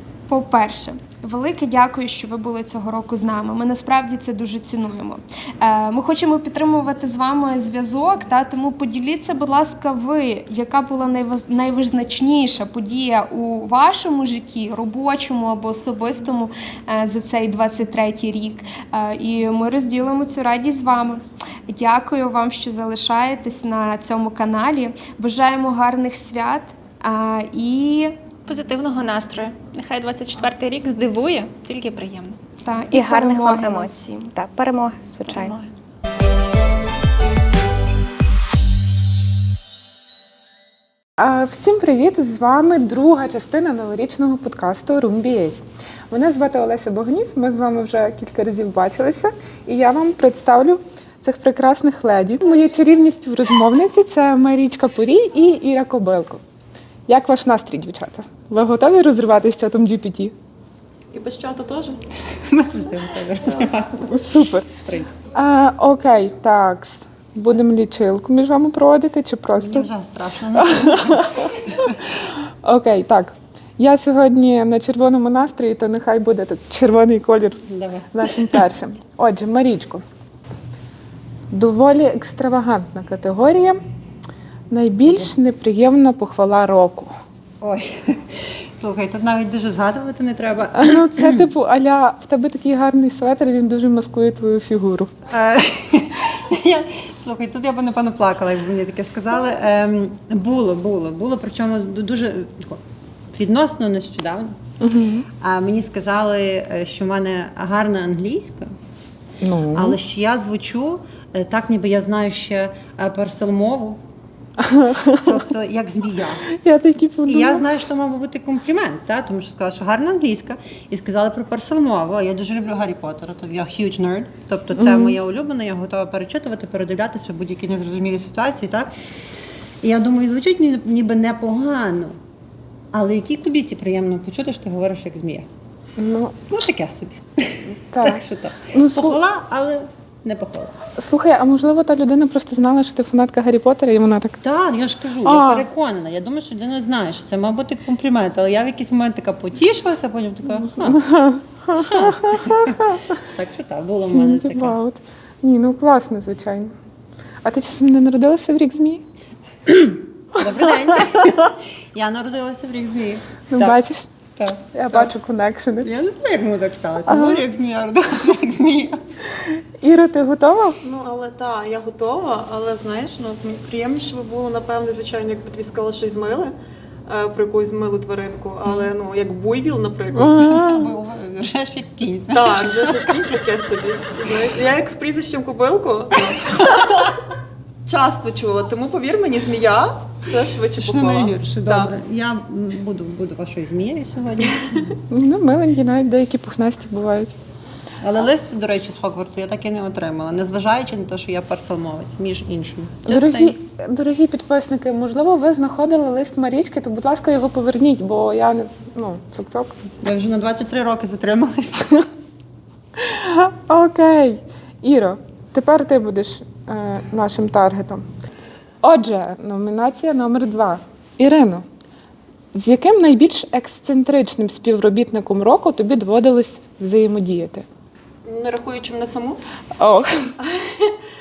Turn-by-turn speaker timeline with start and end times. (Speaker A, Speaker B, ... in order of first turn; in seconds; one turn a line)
Speaker A: 0.3-28.1
Speaker B: 28.5-32.4
Speaker A: 32.6-34.3
Speaker C: 32.9-35.5
Speaker B: 35.3-35.7
Speaker D: 41.2-56.4
Speaker D: 57.1-60.3
Speaker E: 61.1-62.0
Speaker F: 62.3-65.2
Speaker D: 64.0-64.7
Speaker D: 65.3-69.9
Speaker F: 69.6-72.0
Speaker D: 70.5-71.5
Speaker D: 72.2-77.6
Speaker F: 77.7-78.3
Speaker D: 78.1-80.0
Speaker D: 81.5-83.8
Speaker D: 84.7-87.1
Speaker F: 87.6-91.5
Speaker D: 90.8-95.1
Speaker F: 95.3-102.8
Speaker F: 103.3-104.5
Speaker D: 104.8-105.2
Speaker F: 105.4-108.7
Speaker D: 109.4-110.0
Speaker F: 109.7-114.0
Speaker D: 114.6-115.4
Speaker F: 115.2-116.5
Speaker D: 116.5-117.7
Speaker F: 117.3-128.9
Speaker D: 124.8-125.2
Speaker F: 129.8-132.1
Speaker F: 132.9-135.4
Speaker D: 136.0-136.4
Speaker F: 136.5-140.7
Speaker D: 137.9-139.2
Speaker D: 141.0-144.4
Speaker F: 144.4-151.0
Speaker D: 145.2-145.7
Speaker D: 150.8-152.8
Speaker F: 151.7-154.8
Speaker D: 154.0-156.7
Speaker D: 157.4-159.0
Speaker F: 159.7-163.8
Speaker D: 163.5-164.1
Speaker F: 164.3-165.1
Speaker D: 164.7-165.9
Speaker F: 165.8-169.0
Speaker D: 167.1-167.4
Speaker D: 169.8-170.8
Speaker E: 170.8-176.5
Speaker E: 177.1-180.4
Speaker F: 178.6-178.9
Speaker D: 180.1-180.9
Speaker F: 180.3-183.4
Speaker E: 182.3-187.1
Speaker F: 186.3-187.1
Speaker E: 187.8-191.9
Speaker F: 190.7-195.0
Speaker D: 195.1-197.3
Speaker F: 198.0-203.6
Speaker D: 203.1-209.8
Speaker F: 210.0-212.0
Speaker D: 213.0-218.0
Speaker D: 218.8-221.6
Speaker D: 222.5-227.6
Speaker E: 228.2-229.4
Speaker D: 229.8-230.3
Speaker E: 230.4-230.9